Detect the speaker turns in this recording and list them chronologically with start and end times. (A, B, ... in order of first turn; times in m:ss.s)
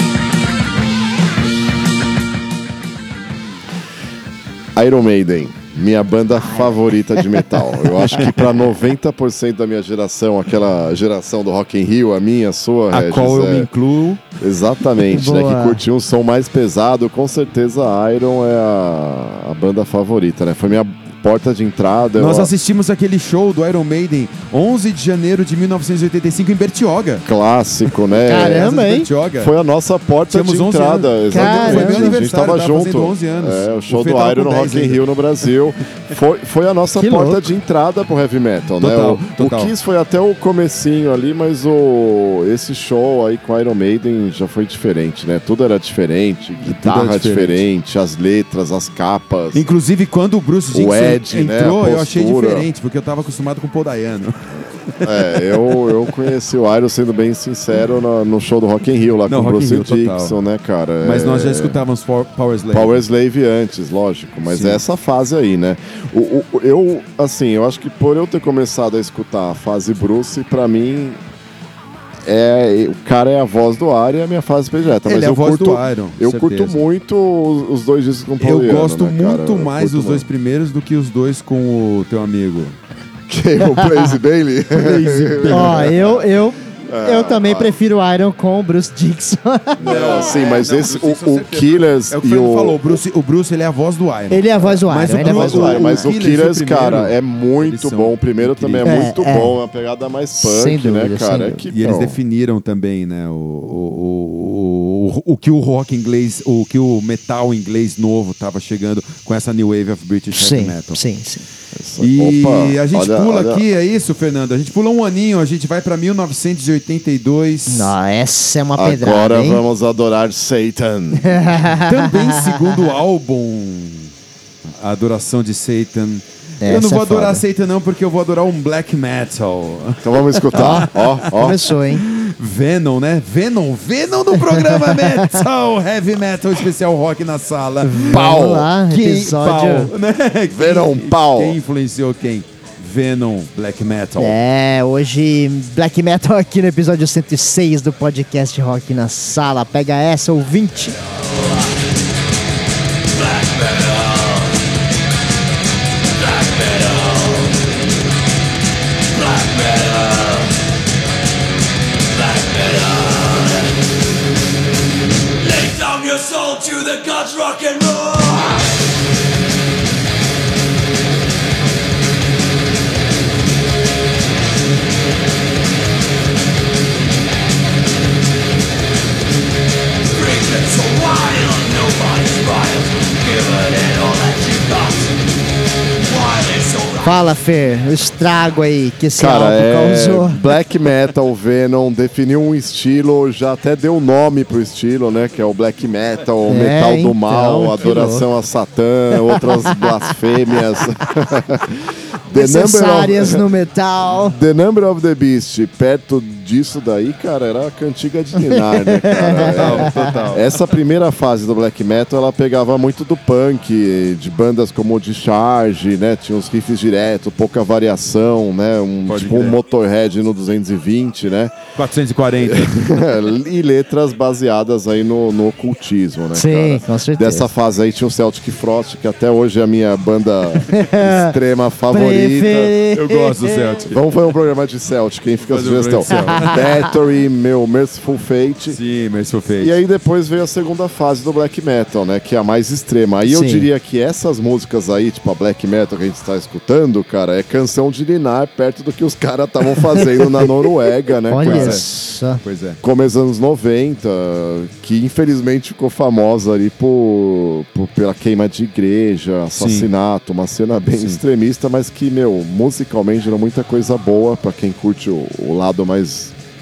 0:04.8-0:13.7 A
0:07.3-0:08.2 B
0:12.9-0:14.2 C
0:14.4-0:22.5 A
0:15.1-0:15.8 B
0:22.2-0:27.2 C
0:27.2-0:28.7 A
0:28.2-0:29.5 C
0:28.3-0:29.1 B
0:29.4-0:49.6 A
0:30.3-0:35.0 C
0:31.3-0:32.2 B
0:37.0-0:37.4 B
0:38.8-0:39.7 C
0:46.6-0:47.6 C
0:49.5-0:55.4 C
0:50.7-0:52.7 A
0:55.0-1:01.8 A
0:59.3-1:00.4 C
1:01.0-1:03.0 C
1:02.7-1:11.2 A
1:04.5-1:04.8 C
1:12.2-1:20.2 A
1:15.0-1:16.8 C
1:18.4-1:22.8 C
1:23.3-1:26.2 A
1:24.7-1:25.9 C
1:25.5-1:30.2 B
1:26.9-1:27.8 A
1:29.8-1:33.0 A
1:29.8-1:39.1 C
1:34.3-1:36.1 B
1:34.6-1:42.2 A
1:38.8-1:39.6 B
1:40.4-1:41.6 B
1:41.7-1:51.0 C
1:50.3-1:51.4 B
1:51.7-1:53.6 A
1:52.0-1:57.9 C
1:57.7-1:59.6 B
1:58.8-2:01.6 A
2:01.2-2:02.6 B
2:01.8-2:04.1 C
2:04.8-2:24.4 C
2:06.6-2:07.4 B
2:10.0-2:11.6 A
2:10.5-2:12.0 B
2:14.4-2:15.4 B
2:17.8-2:19.9 B
2:18.1-2:18.7 A
2:20.5-2:21.6 A
2:24.2-2:31.0 B
2:33.1-2:34.5 D
2:36.2-2:37.6 D
2:39.1-2:40.5 D
2:42.1-2:43.7 D
2:45.4-2:48.7 D
3:00.0-3:05.1 D
3:06.0-3:07.2 D
3:07.0-3:10.4 B
3:09.2-3:23.4 A
3:16.5-3:18.2 B
3:22.3-3:24.4 B
3:24.3-3:41.6 A
3:28.5-3:30.1 B
3:29.4-3:30.6 C
3:39.1-3:39.6 C
3:41.8-3:42.8 C
3:42.4-3:52.7 A
3:46.3-3:47.5 B
3:50.6-3:51.3 B
3:51.9-3:53.8 B
3:52.8-3:54.0 C
3:53.9-3:58.8 A
3:55.5-3:56.6 C
3:56.1-3:56.8 B
3:58.7-3:59.7 C
3:59.6-4:11.8 A
4:03.2-4:03.7 B
4:11.3-4:12.4 B
4:11.4-4:11.8 C
4:12.4-4:12.8 C
4:12.8-4:26.3 A
4:19.6-4:19.9 C